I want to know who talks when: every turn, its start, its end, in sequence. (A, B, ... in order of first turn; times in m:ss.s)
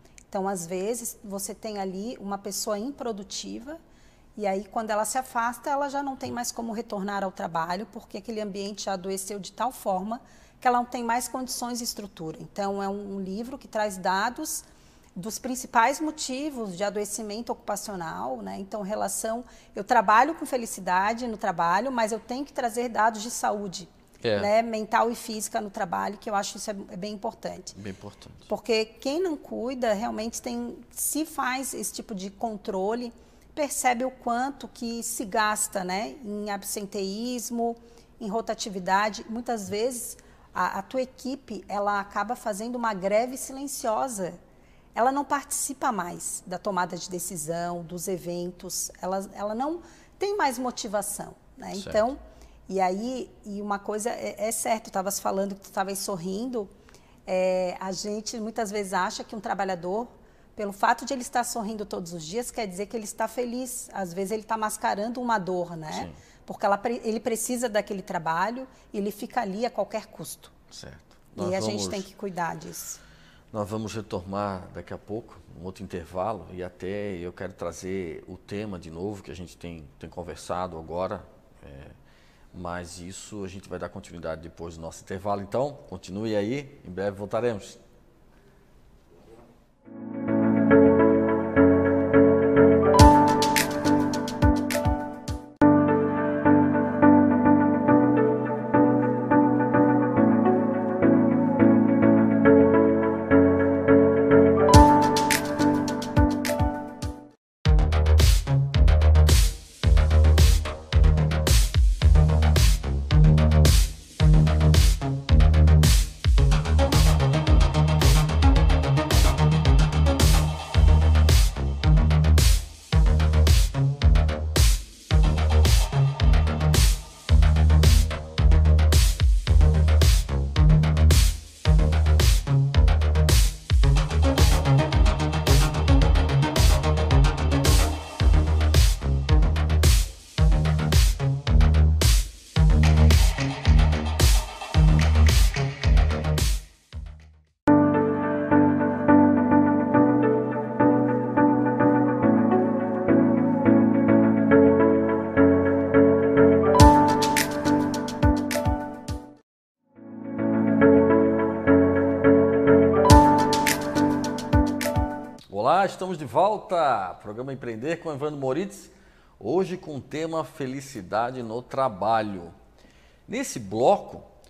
0:00.3-0:03.8 A
0:04.4-0:14.6 A
0:15.2-0:27.8 A
0:24.2-0:24.5 B
0:27.7-0:28.5 B
0:28.5-0:44.4 A
0:44.9-0:56.7 A
0:51.7-0:52.0 B
0:57.2-1:10.5 A
1:05.9-1:06.2 B
1:10.7-1:12.1 B
1:11.4-1:13.0 A
1:13.5-1:21.9 B
1:22.5-1:27.8 B
2:45.5-2:52.5 B
2:53.3-2:54.2 B